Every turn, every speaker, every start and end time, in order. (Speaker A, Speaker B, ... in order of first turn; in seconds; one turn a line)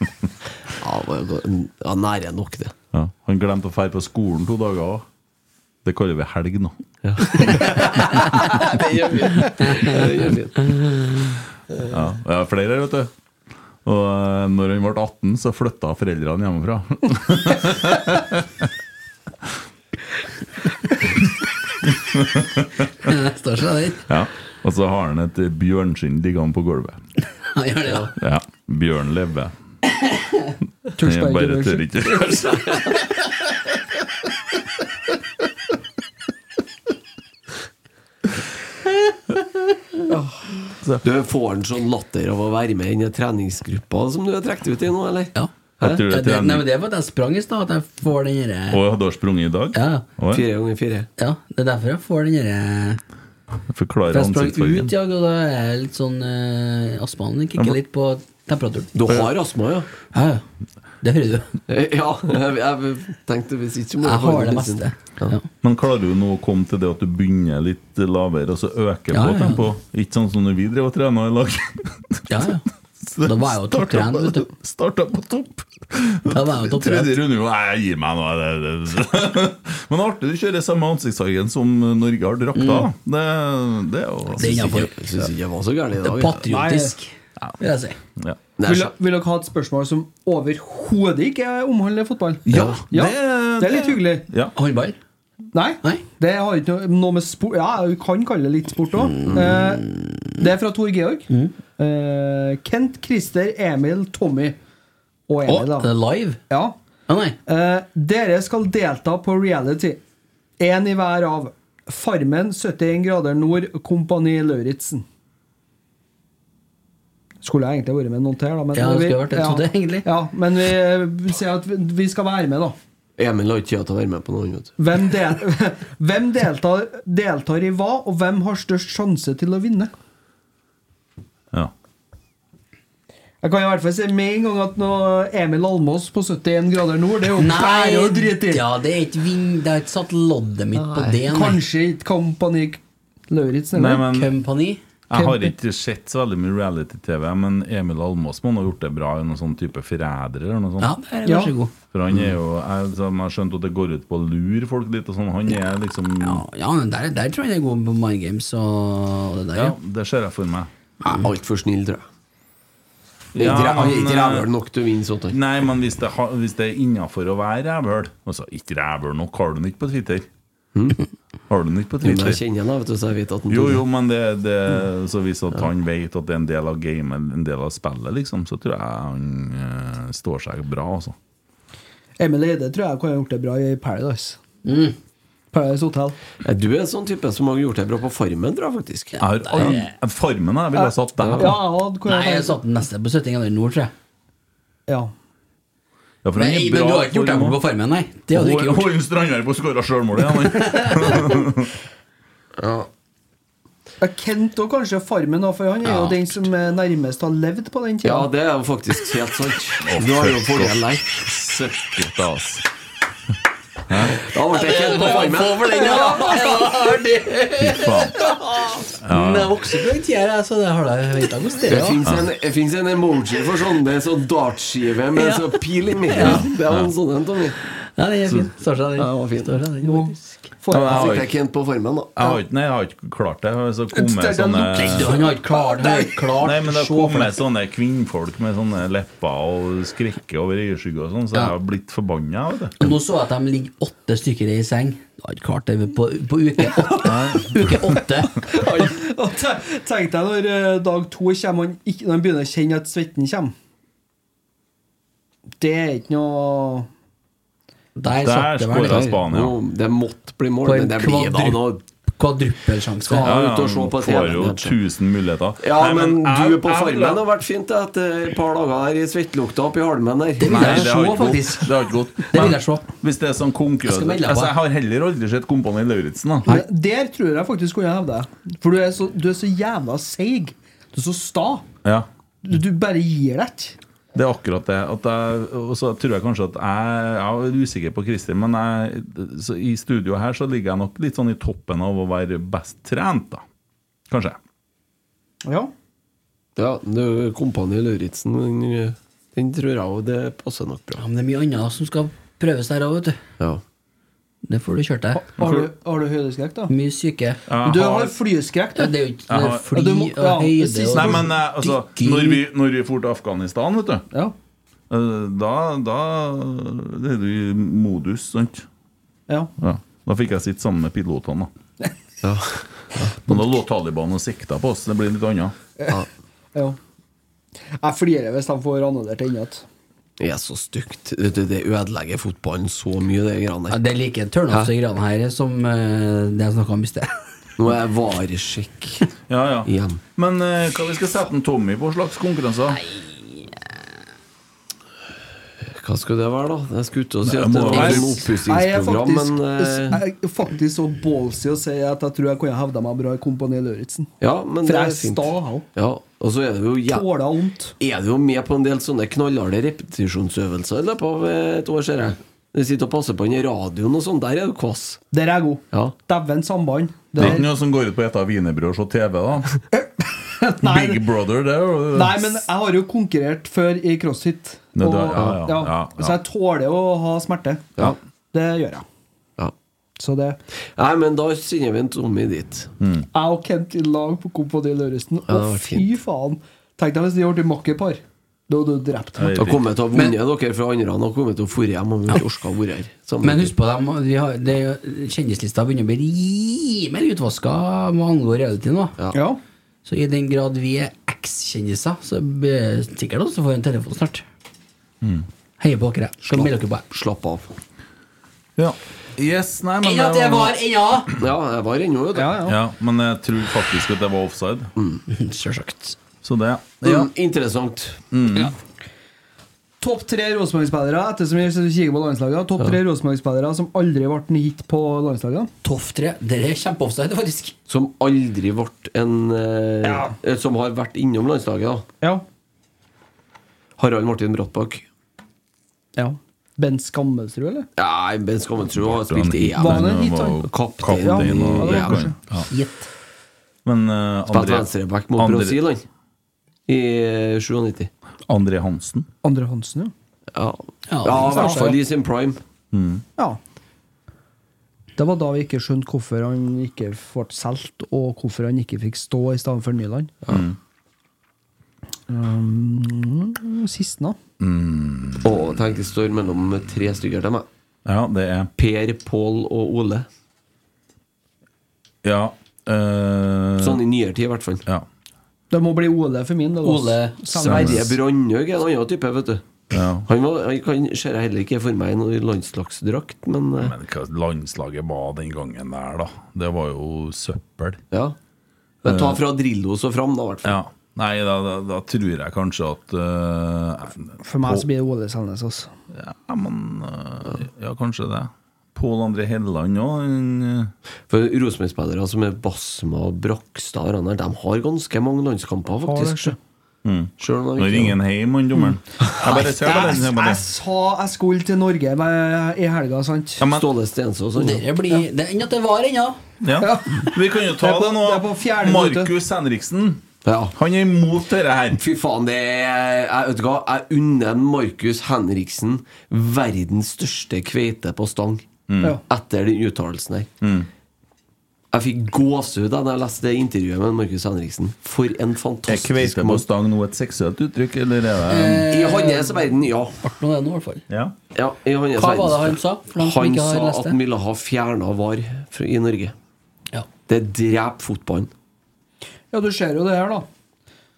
Speaker A: 0.8-2.7
Speaker B: 2.9-5.1
Speaker B: 5.8-6.8
Speaker A: 7.0-10.8
Speaker B: 7.3-7.8
Speaker B: 11.9-13.1
Speaker B: 13.8-18.7
Speaker B: 21.8-23.1
Speaker C: 23.0-24.1
Speaker B: 24.1-27.0
Speaker C: 27.5-28.1
Speaker B: 28.2-29.5
Speaker C: 29.9-30.5
Speaker D: 31.0-32.1
Speaker B: 31.0-33.0
Speaker D: 40.1-40.4
Speaker A: 41.0-46.0
Speaker B: 45.8-46.7
Speaker C: 46.0-48.8
Speaker B: 48.7-50.4
Speaker C: 49.7-50.0
Speaker A: 50.3-51.1
Speaker C: 51.2-53.0
Speaker B: 53.7-54.9
Speaker C: 54.1-58.9
Speaker A: 58.9-59.9
Speaker C: 60.1-60.4
Speaker C: 61.0-61.5
Speaker A: 61.7-65.3
Speaker C: 64.0-65.5
Speaker B: 65.6-72.2
Speaker C: 69.1-69.7
Speaker C: 72.3-72.6
Speaker B: 73.0-84.9
Speaker C: 73.2-74.5
Speaker C: 76.3-77.2
Speaker C: 82.5-82.9
Speaker C: 84.4-84.9
Speaker A: 84.4-86.4
Speaker C: 86.0-88.0
Speaker D: 86.5-87.0
Speaker A: 88.6-88.9
Speaker D: 88.7-94.2
Speaker B: 92.5-94.5
Speaker A: 92.5-92.8
Speaker C: 94.5-95.0
Speaker D: 95.5-104.6
Speaker C: 99.1-100.3
Speaker A: 99.3-99.5
Speaker D: 105.3-105.9
Speaker C: 105.5-106.4
Speaker D: 106.5-106.8
Speaker C: 107.1-107.4
Speaker D: 107.5-110.0
Speaker D: 110.6-115.0
Speaker D: 117.4-122.8
Speaker C: 118.7-120.1
Speaker A: 123.2-124.7
Speaker D: 124.8-129.9
Speaker D: 133.4-138.6
Speaker C: 137.3-141.6
Speaker D: 141.2-144.1
Speaker B: 143.7-144.3
Speaker C: 144.1-144.8
Speaker B: 145.1-150.9
Speaker D: 145.1-145.5
Speaker C: 150.8-151.7
Speaker D: 151.2-151.5
Speaker B: 151.9-156.4
Speaker C: 156.2-159.8
Speaker B: 159.5-160.7
Speaker A: 161.0-162.1
Speaker B: 163.3-164.5
Speaker A: 163.3-165.4
Speaker B: 165.3-170.3
Speaker A: 170.7-171.0
Speaker B: 171.5-172.4
Speaker A: 172.0-173.8
Speaker B: 173.5-181.2
Speaker D: 182.2-184.4
Speaker C: 184.6-184.9
Speaker D: 185.5-186.1
Speaker A: 186.4-189.2
Speaker C: 189.2-189.9
Speaker B: 189.2-191.6
Speaker D: 190.8-192.5
Speaker A: 191.2-191.5
Speaker C: 192.1-193.9
Speaker D: 194.9-195.1
Speaker B: 196.2-197.6
Speaker C: 196.3-198.9
Speaker B: 198.3-201.7
Speaker C: 200.5-201.2
Speaker A: 202.6-202.9
Speaker D: 204.0-208.3
Speaker C: 205.8-206.2
Speaker A: 208.0-211.5
Speaker B: 209.8-212.6
Speaker B: 213.9-214.2
Speaker A: 214.2-216.0
Speaker C: 214.5-222.0
Speaker D: 215.7-216.7
Speaker B: 217.6-218.2
Speaker B: 219.0-219.5
Speaker A: 221.7-227.6
Speaker C: 225.2-225.6
Speaker C: 226.1-226.4
Speaker B: 226.2-226.9
Speaker C: 227.8-230.5
Speaker A: 229.0-229.7
Speaker D: 229.8-231.2
Speaker B: 230.7-231.3
Speaker A: 230.7-232.1
Speaker B: 232.2-235.2
Speaker D: 233.9-236.2
Speaker C: 234.7-237.3
Speaker B: 236.4-242.9
Speaker C: 242.8-248.9
Speaker B: 247.0-247.6
Speaker D: 248.5-253.5
Speaker D: 255.6-256.9
Speaker C: 257.9-259.1
Speaker B: 258.2-259.5
Speaker A: 258.9-261.8
Speaker C: 260.6-261.6
Speaker C: 262.2-263.4
Speaker A: 263.1-264.8
Speaker B: 263.2-267.2
Speaker A: 265.6-270.9
Speaker C: 270.4-271.4
Speaker B: 270.5-276.6
Speaker D: 270.8-271.7
Speaker C: 272.3-272.9
Speaker C: 273.8-274.5
Speaker D: 276.4-281.6
Speaker D: 282.4-283.8
Speaker B: 284.1-293.4
Speaker B: 294.1-294.4
Speaker D: 295.4-295.7
Speaker A: 296.6-301.0
Speaker C: 301.0-303.2
Speaker C: 304.4-305.3
Speaker D: 305.1-306.7
Speaker B: 305.4-305.7
Speaker C: 306.7-307.4
Speaker B: 307.5-308.1
Speaker D: 307.6-308.9
Speaker C: 308.8-312.4
Speaker B: 309.3-309.7
Speaker D: 309.7-311.3
Speaker B: 310.9-314.1
Speaker B: 314.9-318.7
Speaker B: 319.6-321.5
Speaker A: 322.2-323.2
Speaker B: 323.2-325.5
Speaker D: 327.8-329.6
Speaker A: 330.2-333.8
Speaker C: 333.7-337.1
Speaker A: 337.6-339.1
Speaker B: 339.3-342.8
Speaker A: 339.7-340.0
Speaker A: 345.7-350.0
Speaker B: 347.2-348.1
Speaker D: 347.7-354.1
Speaker A: 354.2-357.1
Speaker D: 354.6-355.6
Speaker D: 356.9-357.7
Speaker A: 357.8-365.0
Speaker D: 365.1-367.5
Speaker B: 367.1-369.5
Speaker D: 369.7-371.0
Speaker B: 370.6-372.4
Speaker D: 371.9-378.8
Speaker B: 374.8-376.2
Speaker A: 375.1-375.4
Speaker D: 380.0-380.4
Speaker A: 380.8-382.7
Speaker B: 382.8-383.1
Speaker D: 383.1-389.3
Speaker A: 385.3-385.9
Speaker B: 389.2-389.6
Speaker A: 389.3-393.5
Speaker C: 393.2-398.9
Speaker D: 399.1-399.4
Speaker C: 399.8-404.2
Speaker B: 405.0-405.3
Speaker C: 405.6-406.8
Speaker A: 406.2-407.5
Speaker B: 408.6-410.6
Speaker C: 409.8-411.1
Speaker A: 411.2-412.4
Speaker D: 412.1-412.5
Speaker B: 412.4-414.7
Speaker A: 414.8-415.0
Speaker C: 415.1-416.0
Speaker B: 416.2-417.1
Speaker A: 416.8-418.0
Speaker B: 418.1-418.5
Speaker D: 419.8-425.5
Speaker C: 425.6-427.5
Speaker A: 427.7-431.9
Speaker D: 429.8-430.1
Speaker A: 433.8-434.8
Speaker D: 435.9-437.7
Speaker A: 437.8-442.0
Speaker B: 438.7-442.5
Speaker D: 439.6-440.4
Speaker D: 441.0-442.2
Speaker C: 442.5-442.9
Speaker B: 443.6-445.6
Speaker A: 444.3-445.8
Speaker A: 446.7-447.9
Speaker B: 448.3-449.1
Speaker D: 449.2-449.9
Speaker A: 450.3-452.4
Speaker C: 450.9-451.8
Speaker D: 451.3-451.7
Speaker B: 452.7-453.0
Speaker D: 454.9-460.2
Speaker B: 460.3-460.6
Speaker D: 462.1-464.2
Speaker B: 464.4-465.4
Speaker A: 465.2-467.4
Speaker B: 467.8-468.5
Speaker A: 468.6-470.1
Speaker B: 472.0-473.8
Speaker A: 473.6-474.6
Speaker D: 475.5-477.9
Speaker C: 476.6-477.5
Speaker B: 477.4-477.9
Speaker A: 477.4-479.4
Speaker B: 479.7-480.1
Speaker A: 480.1-483.7
Speaker B: 483.6-487.8
Speaker A: 488.8-490.6
Speaker B: 488.8-489.2
Speaker B: 490.4-494.7
Speaker D: 494.2-495.7
Speaker B: 495.9-500.7
Speaker A: 501.1-506.3
Speaker D: 505.8-506.4
Speaker B: 506.8-510.4
Speaker A: 507.2-508.0
Speaker D: 509.2-513.4
Speaker B: 513.4-513.6
Speaker A: 513.5-514.7
Speaker C: 514.4-516.2
Speaker B: 516.4-520.0
Speaker D: 516.6-519.1
Speaker A: 520.2-520.5
Speaker B: 520.5-521.8
Speaker A: 521.7-528.5
Speaker B: 528.7-529.0
Speaker A: 529.1-530.3
Speaker B: 530.4-530.7
Speaker A: 531.7-536.4
Speaker B: 535.7-538.6
Speaker C: 538.3-539.4
Speaker A: 538.7-540.0
Speaker C: 540.0-540.8
Speaker B: 540.9-541.1
Speaker A: 541.3-546.1
Speaker C: 542.0-544.0
Speaker A: 547.1-548.3
Speaker D: 549.3-550.3